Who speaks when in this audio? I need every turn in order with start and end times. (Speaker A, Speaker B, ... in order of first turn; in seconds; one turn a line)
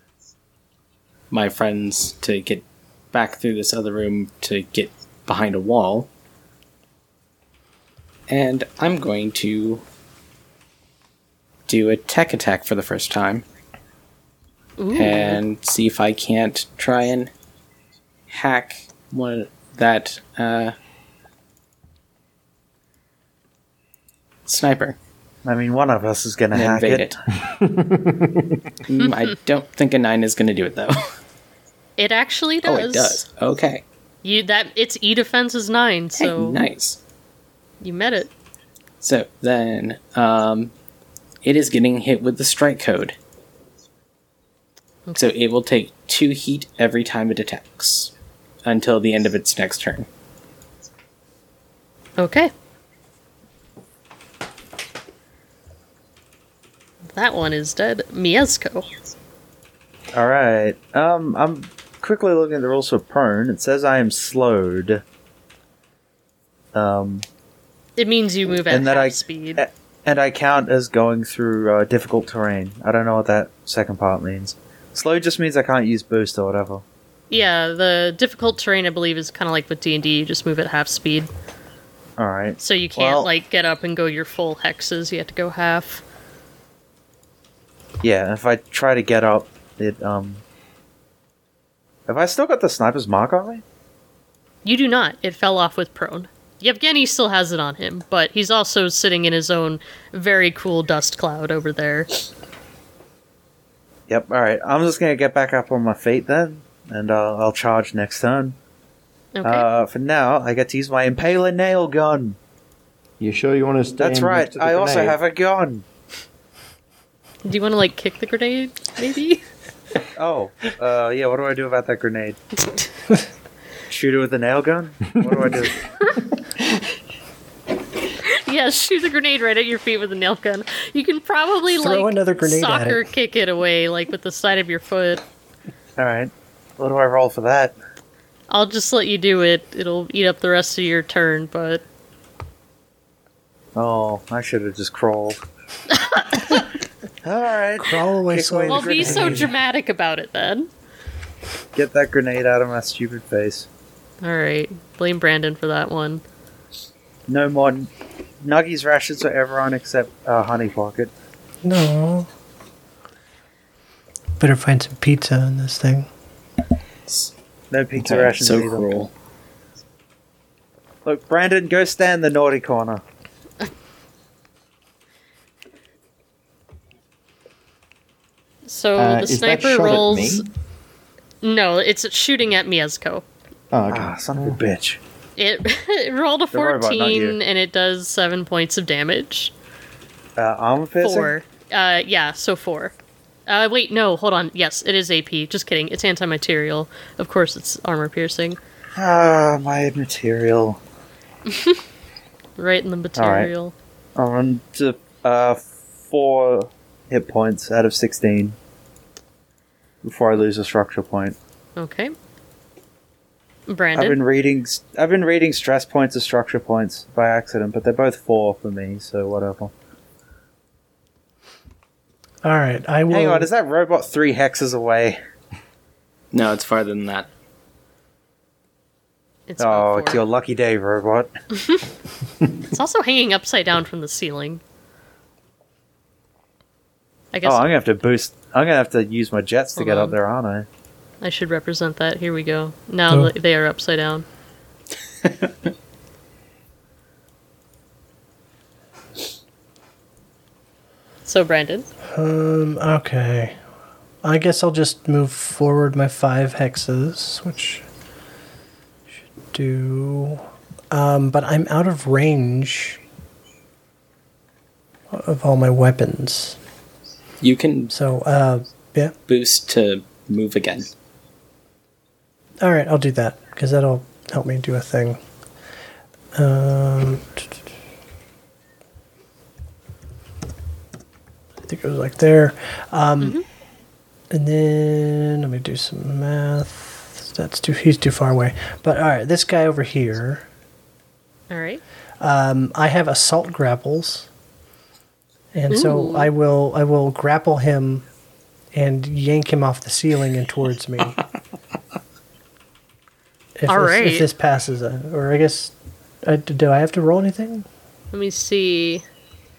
Speaker A: 1.3-6.1
Speaker A: 8.3-9.8
Speaker A: 11.7-13.4
Speaker B: 14.8-15.4
Speaker A: 14.9-17.3
Speaker A: 18.3-20.8
Speaker A: 24.5-25.0
Speaker C: 25.4-27.2
Speaker A: 26.5-27.2
Speaker D: 27.4-28.6
Speaker A: 28.9-31.1
Speaker B: 32.0-33.2
Speaker A: 32.6-33.8
Speaker B: 34.2-36.6
Speaker A: 36.2-37.0
Speaker B: 37.8-38.3
Speaker A: 39.0-40.7
Speaker A: 41.4-43.2
Speaker A: 45.2-48.1
Speaker A: 48.6-50.1
Speaker B: 52.2-52.5
Speaker B: 57.1-58.9
Speaker C: 60.1-65.0
Speaker C: 66.7-67.2
Speaker B: 68.0-69.6
Speaker C: 68.6-76.8
Speaker B: 77.3-81.3
Speaker C: 82.2-83.3
Speaker B: 82.6-86.0
Speaker C: 88.0-90.4
Speaker C: 92.1-93.6
Speaker B: 94.7-102.1
Speaker C: 104.1-108.6
Speaker B: 109.3-109.7
Speaker C: 109.4-112.4
Speaker D: 113.2-115.2
Speaker C: 114.0-115.8
Speaker B: 117.5-119.4
Speaker C: 120.2-122.4
Speaker C: 123.9-125.8
Speaker B: 128.2-135.2
Speaker E: 131.7-133.0
Speaker C: 136.0-137.8
Speaker B: 138.5-141.8
Speaker C: 143.8-145.4
Speaker B: 146.0-146.6
Speaker C: 147.2-149.5
Speaker E: 147.8-149.5
Speaker B: 148.7-150.7
Speaker C: 151.8-153.7
Speaker B: 154.2-156.2
Speaker C: 157.3-157.9
Speaker C: 158.4-161.1
Speaker E: 161.7-162.3
Speaker E: 164.4-166.1
Speaker A: 167.1-167.3
Speaker C: 167.7-168.9
Speaker A: 168.0-169.1
Speaker C: 171.1-173.0
Speaker B: 178.7-180.5
Speaker D: 179.0-180.5
Speaker B: 181.4-183.2
Speaker D: 183.7-184.6
Speaker C: 183.9-185.0
Speaker B: 185.4-189.5
Speaker C: 186.5-187.4
Speaker C: 190.4-191.3
Speaker B: 191.0-192.9
Speaker B: 193.5-198.6
Speaker C: 199.0-200.8
Speaker B: 201.5-201.8
Speaker B: 202.6-203.8
Speaker C: 203.2-203.5
Speaker C: 204.2-208.6
Speaker C: 210.0-211.4
Speaker B: 211.8-212.1
Speaker B: 213.7-214.2
Speaker C: 214.0-219.7
Speaker E: 222.4-223.5
Speaker C: 223.1-225.2
Speaker A: 226.3-227.3
Speaker B: 229.5-230.2
Speaker C: 229.6-231.3
Speaker B: 232.7-234.6
Speaker B: 237.3-237.7
Speaker C: 237.4-240.7
Speaker B: 239.8-240.2
Speaker B: 241.2-244.3
Speaker B: 251.2-251.9
Speaker E: 252.1-253.6
Speaker E: 254.2-257.9
Speaker E: 259.5-263.0
Speaker E: 265.1-266.6
Speaker A: 267.4-267.9
Speaker E: 267.9-269.1
Speaker A: 269.3-270.9
Speaker E: 272.6-275.2
Speaker E: 276.4-277.5
Speaker E: 281.6-283.4
Speaker E: 284.3-290.4
Speaker B: 291.5-291.8
Speaker E: 292.2-294.3
Speaker E: 295.5-298.1
Speaker B: 295.7-296.3
Speaker E: 298.7-301.2
Speaker E: 303.6-307.7
Speaker B: 303.7-304.3
Speaker B: 308.1-309.0